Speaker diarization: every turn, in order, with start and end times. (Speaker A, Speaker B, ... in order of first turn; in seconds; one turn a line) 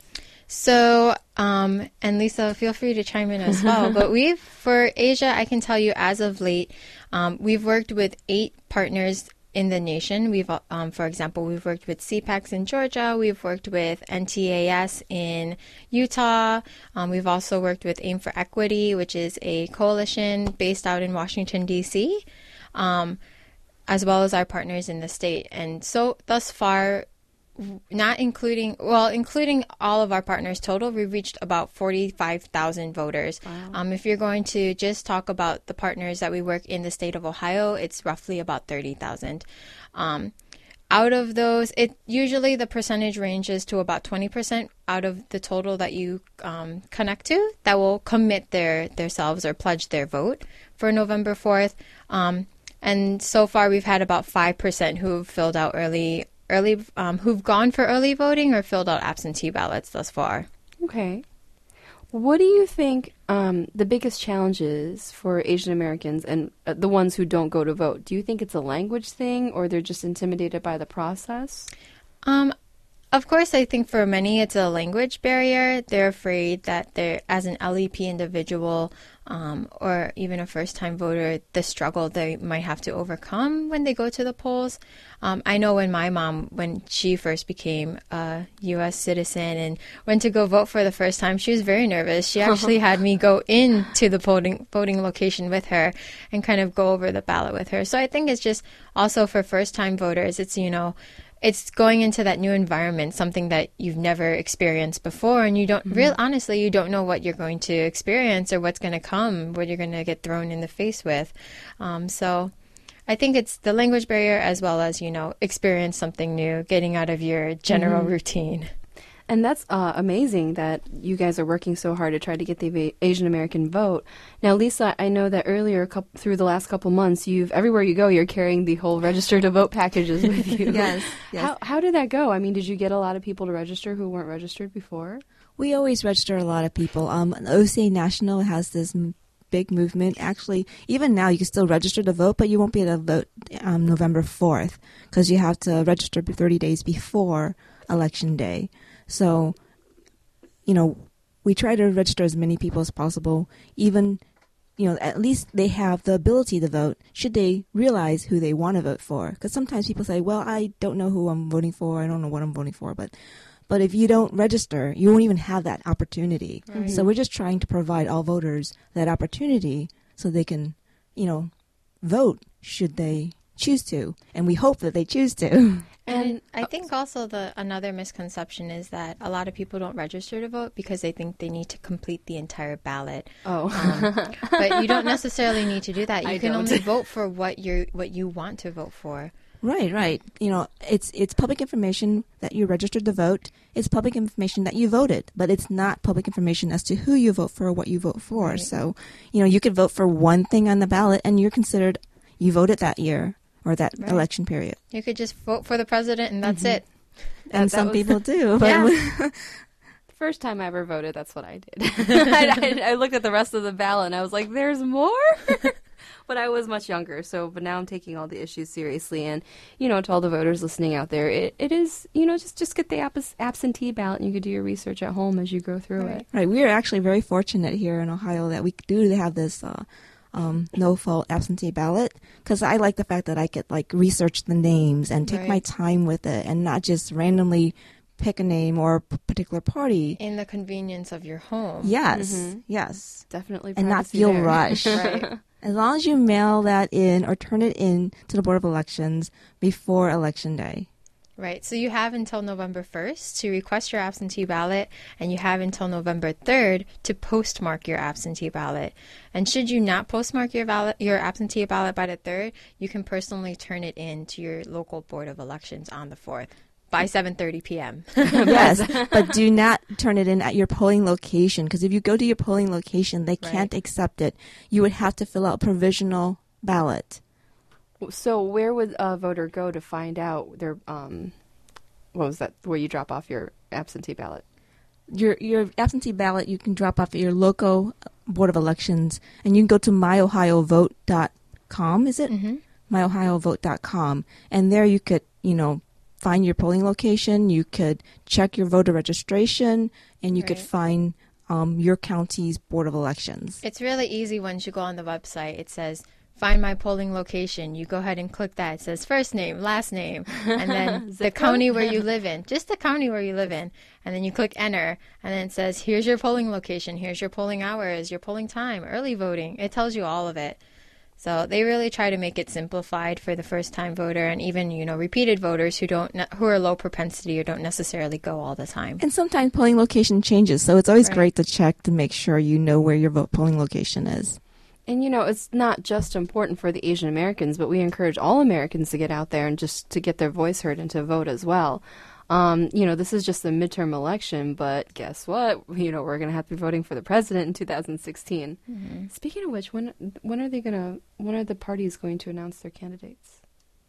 Speaker A: 0.5-22.2
Speaker A: 22.8-23.2
Speaker A: 23.9-27.1
Speaker A: 27.6-40.3
Speaker B: 33.5-33.8
Speaker A: 40.9-60.5
Speaker B: 60.8-61.3
Speaker B: 62.1-71.7
Speaker A: 72.2-72.5
Speaker A: 73.1-112.5
Speaker B: 92.4-92.7
Speaker B: 105.9-106.1
Speaker A: 113.1-118.7
Speaker B: 117.7-118.1
Speaker B: 119.3-135.2
Speaker C: 130.7-131.5
Speaker C: 135.6-149.6
Speaker C: 150.7-154.2
Speaker C: 154.8-163.2
Speaker C: 163.7-175.9
Speaker A: 166.7-167.0
Speaker B: 166.7-167.1
Speaker B: 176.1-176.8
Speaker A: 176.1-189.3
Speaker B: 183.4-185.1
Speaker B: 186.2-186.9
Speaker C: 189.6-204.8
Speaker A: 198.3-198.7
Speaker A: 204.0-204.3
Speaker A: 204.9-207.2
Speaker B: 206.5-206.8
Speaker C: 207.5-209.6
Speaker B: 207.6-208.1
Speaker A: 208.6-208.9
Speaker B: 210.1-226.2
Speaker A: 226.0-226.3
Speaker C: 226.3-240.2
Speaker A: 235.2-235.6
Speaker A: 240.2-241.9
Speaker C: 241.8-245.0
Speaker B: 242.1-242.6
Speaker B: 243.3-245.4
Speaker A: 245.0-245.3
Speaker C: 245.6-250.9
Speaker A: 251.4-268.7
Speaker B: 268.4-269.3
Speaker C: 268.5-277.2
Speaker A: 273.4-273.7
Speaker B: 278.0-281.4
Speaker B: 282.1-284.4
Speaker C: 285.1-303.6
Speaker A: 292.3-292.6
Speaker A: 300.3-300.7
Speaker A: 303.6-320.6
Speaker B: 310.6-312.0
Speaker A: 321.2-329.0
Speaker C: 329.0-334.4
Speaker B: 334.9-353.4
Speaker A: 348.7-349.1